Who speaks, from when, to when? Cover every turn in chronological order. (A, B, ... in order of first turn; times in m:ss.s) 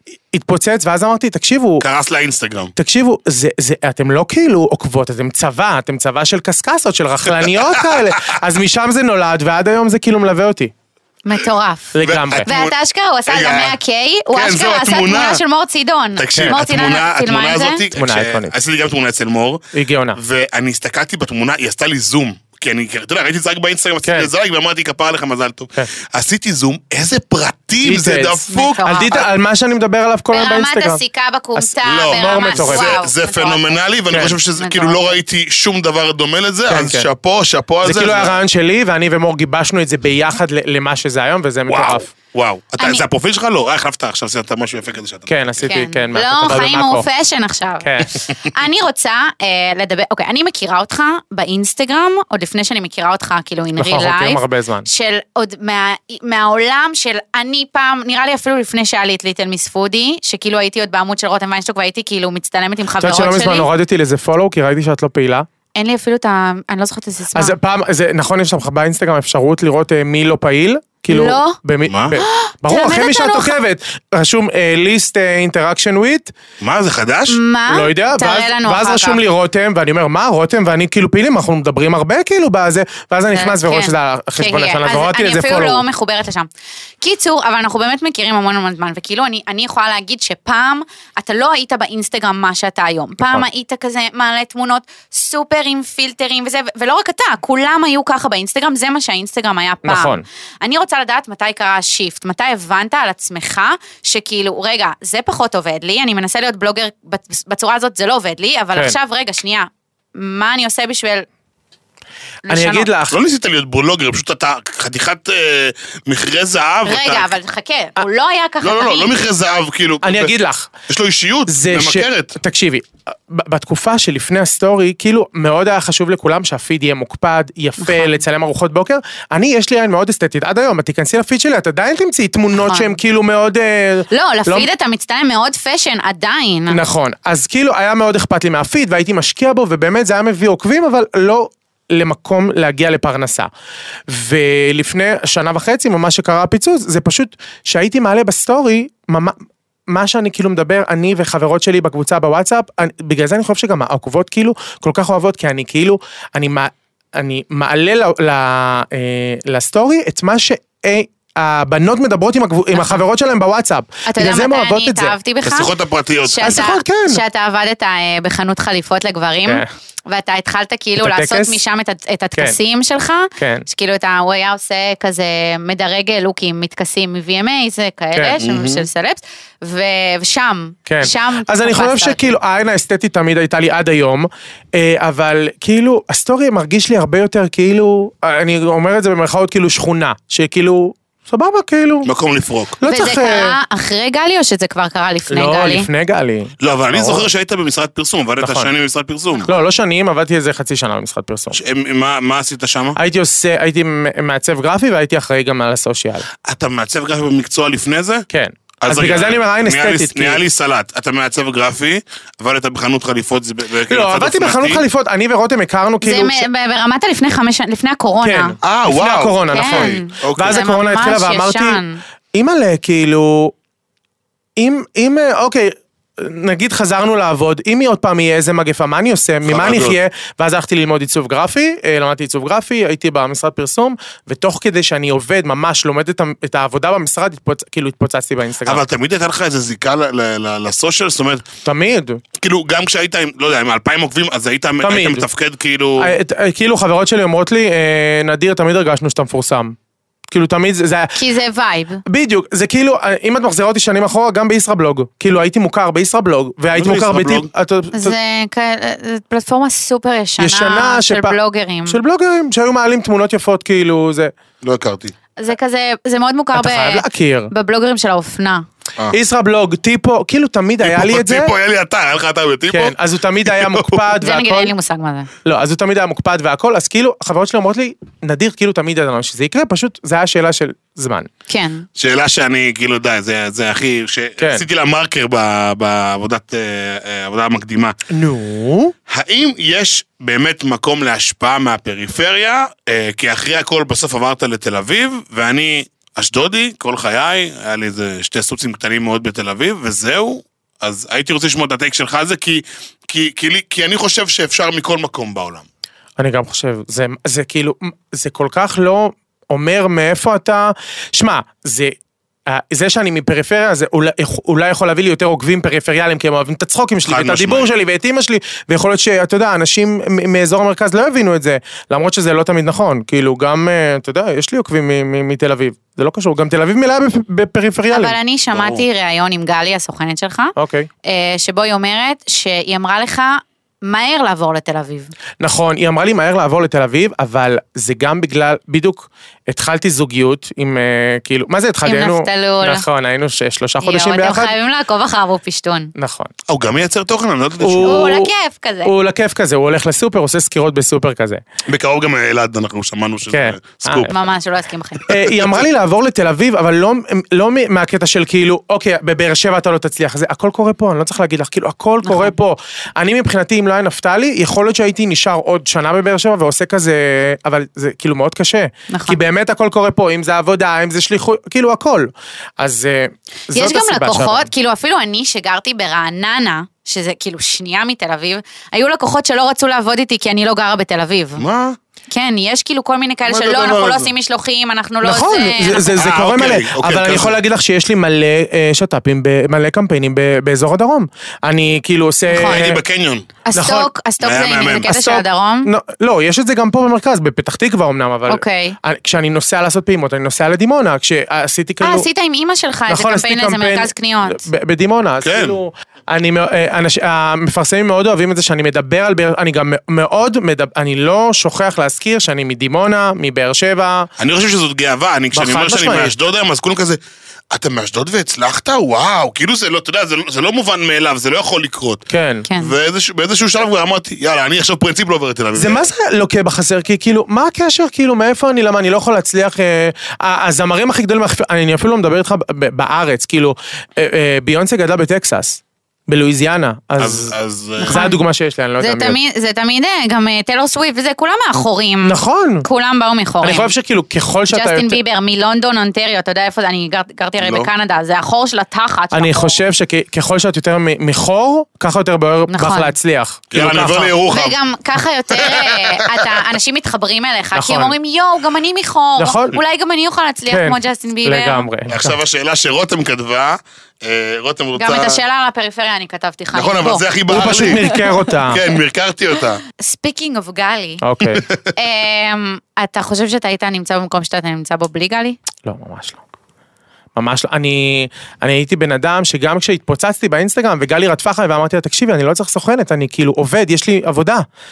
0:00.3-0:01.8 A
0:01.8-0:02.7 B
0:02.8-0:10.7 A
0:11.2-0:17.8 C
0:11.9-0:12.5 A
0:12.0-0:12.7 B
0:13.3-0:13.7 B
0:14.3-0:15.4 B
0:16.2-0:19.6 B
0:17.9-0:18.5 A
0:19.7-0:20.2 A
0:20.1-0:29.2 B
0:24.0-0:24.3 A
0:27.8-0:31.0 A
0:28.5-0:29.2 C
0:30.3-0:33.8 C
0:31.6-0:33.0 A
0:31.8-0:38.4 B
0:34.1-0:34.4 A
0:34.5-0:35.2 C
0:36.7-0:37.1 A
0:37.8-0:42.1 A
0:41.7-0:45.8 B
0:42.8-0:43.0 C
0:45.3-0:47.1 A
0:45.6-1:03.7 C
0:47.8-0:48.2 A
0:53.8-0:54.8 A
1:03.0-1:05.5 A
1:05.7-1:07.6 C
1:07.3-1:16.3 A
1:11.1-1:11.6 C
1:11.9-1:12.2 B
1:12.1-1:13.5 C
1:16.6-1:17.4 B
1:17.3-1:19.2 C
1:17.7-1:25.8 A
1:23.3-1:26.5 C
1:27.0-1:51.2 C
1:39.8-1:40.2 A
1:52.4-1:52.9 C
1:52.4-1:53.2 A
1:53.1-1:57.3 B
1:56.8-1:59.1 C
1:58.6-2:00.3 B
2:00.0-2:00.7 A
2:00.9-2:02.3 B
2:01.5-2:14.7 A
2:07.8-2:08.1 C
2:12.6-2:12.9 C
2:14.1-2:16.8 C
2:16.7-2:23.5 A
2:24.1-2:29.4 A
2:29.9-2:45.1 A
2:42.7-2:43.0 C
2:44.0-2:45.7 C
2:45.4-2:46.6 B
2:46.3-3:02.3 C
2:46.4-2:47.2 A
2:51.0-2:51.6 A
2:53.4-2:53.6 A
2:58.1-2:58.4 A
2:58.4-2:58.8 B
3:00.9-3:12.1 A
3:12.0-3:12.8 B
3:12.8-3:13.6 A
3:12.9-3:15.9 C
3:15.3-3:17.3 A
3:16.6-3:19.5 B
3:18.4-3:18.7 A
3:19.4-3:21.6 A
3:21.5-3:23.0 B
3:23.0-3:26.3 A
3:26.4-3:28.2 B
3:28.3-3:30.4 A
3:28.8-3:34.8 B
3:33.9-3:36.4 A
3:36.0-3:38.6 C
3:38.2-3:41.8 A
3:38.6-3:40.6 B
3:39.5-3:42.0 C
3:42.3-3:43.5 A
3:44.6-3:58.8 A
3:49.4-3:50.0 B
3:58.6-4:01.4 B
4:01.6-4:02.2 A
4:02.4-4:06.1 B
4:04.8-4:05.3 A
4:06.0-4:09.8 A
4:10.3-4:11.2 A
4:11.2-4:12.0 C
4:12.0-4:18.1 A
4:16.7-4:17.5 B
4:17.9-4:22.0 C
4:20.4-4:24.3 A
4:24.6-4:25.1 B
4:25.4-4:28.6 C
4:26.5-4:27.5 A
4:29.1-4:31.5 A
4:30.8-4:32.9 B
4:32.7-4:34.7 A
4:33.5-4:34.0 B
4:34.2-4:35.3 C
4:35.4-4:41.3 A
4:41.5-4:41.8 C
4:42.0-4:48.0 B
4:44.4-4:44.6 A
4:48.1-4:48.9 A
4:49.1-5:05.6 B
5:06.2-5:28.1 A
5:17.0-5:17.7 B
5:27.9-5:35.1 C
5:28.5-5:28.8 B
5:30.6-5:30.9 A
5:35.4-5:44.5 A
5:41.8-5:42.8 C
5:43.8-5:45.9 C
5:46.0-5:46.3 A
5:46.5-5:48.1 B
5:47.6-5:48.3 A
5:47.8-5:48.9 C
5:48.8-5:51.4 A
5:51.7-5:54.1 B
5:53.3-5:54.1 A
5:54.1-5:55.0 C
5:55.1-6:14.5 A
5:55.1-5:55.4 B
6:02.0-6:02.3 C
6:08.9-6:09.2 C
6:13.5-6:21.4 C
6:21.4-6:21.8 B
6:22.1-6:25.9 C
6:23.2-6:24.1 B
6:25.0-6:32.8 A
6:26.0-6:27.3 B
6:32.3-6:32.6 C
6:32.4-6:33.3 B
6:33.4-6:35.7 C
6:33.5-6:33.9 A
6:34.2-6:34.9 B
6:34.8-6:42.0 A
6:38.3-6:38.8 C
6:41.8-6:44.4 C
6:42.9-6:54.1 A
6:45.2-6:45.6 B
6:54.2-6:57.0 B
6:55.3-6:56.1 A
6:57.5-7:02.0 B
7:02.1-7:02.4 A
7:02.5-7:02.7 C
7:02.6-7:05.8 B
7:05.5-7:17.3 A
7:17.0-7:18.0 B
7:17.8-7:18.2 C
7:17.8-7:19.2 A
7:18.8-7:23.7 C
7:22.0-7:22.6 A
7:23.4-7:25.0 A
7:24.5-7:29.6 C
7:27.4-7:27.7 B
7:29.1-7:34.1 A
7:32.5-7:32.9 C
7:33.5-7:34.6 B
7:34.3-7:41.6 C
7:35.3-7:36.2 B
7:37.5-7:37.9 A
7:39.2-7:39.6 A
7:40.5-7:42.2 A
7:41.9-7:45.2 B
7:44.8-7:47.0 C
7:46.5-7:47.8 B
7:47.3-7:48.6 A
7:47.7-7:48.0 C
7:48.4-7:49.6 B
7:49.8-7:51.0 C
7:51.0-7:51.4 A
7:51.7-7:55.4 C
7:55.6-7:56.2 A
7:57.2-8:04.4 A